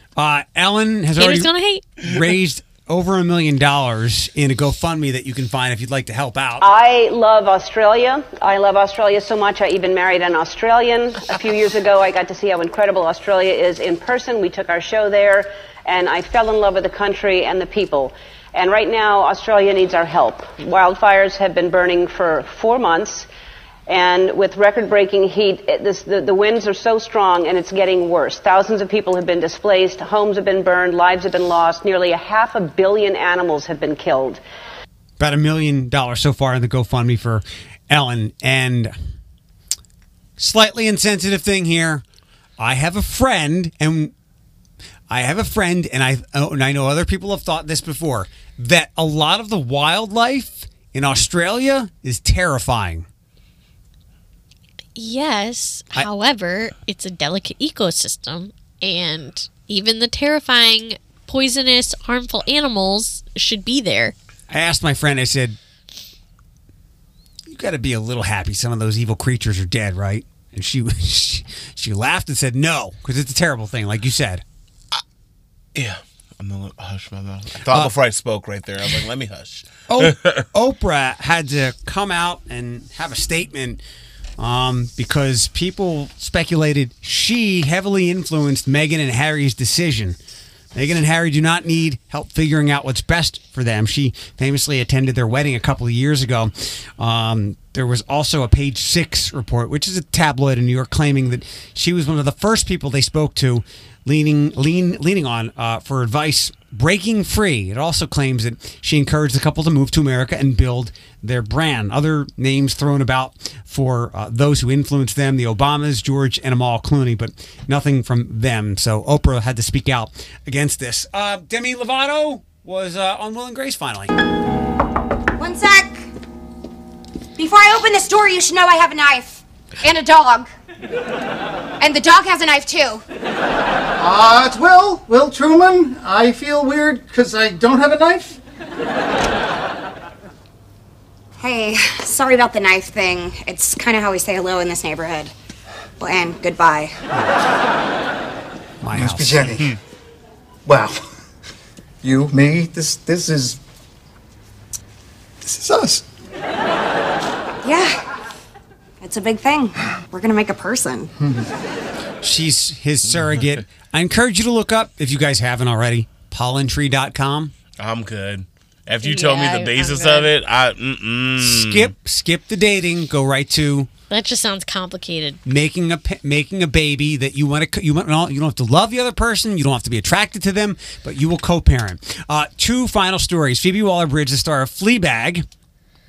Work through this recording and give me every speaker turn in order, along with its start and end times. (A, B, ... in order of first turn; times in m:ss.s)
0:00.2-0:06.6 A
0:01.2-0:02.0 B
0:06.6-0:23.3 C
0:23.9-0:34.4 C
0:35.2-0:38.9 A
0:40.4-0:42.0 A
0:42.6-0:44.1 A
0:45.1-0:53.1 A
0:55.0-1:04.1 B
1:04.5-1:05.6 A
1:07.5-1:14.4 A
1:15.8-1:20.4 D
1:17.7-1:17.9 A
1:19.9-1:23.8 A
1:24.4-1:30.2 A
1:30.7-2:04.1 A
2:05.4-2:06.1 E
2:07.4-2:10.5 E
2:11.8-2:13.0 E
2:14.0-2:18.4 F
2:21.4-2:25.3 E
2:26.0-2:27.0 E
2:28.8-2:29.6 A
2:28.9-2:29.8 F
2:30.7-2:31.0 F
2:32.0-2:33.6 F
2:35.4-2:36.0 F
2:37.6-2:38.0 E
2:39.0-2:41.1 E
2:41.2-2:41.5 F
2:42.2-2:47.5 A
2:43.2-2:43.6 D
2:47.8-2:51.9 D
2:49.0-2:50.3 B
2:51.4-2:53.9 A
2:54.1-2:55.4 B
2:55.4-3:05.5 A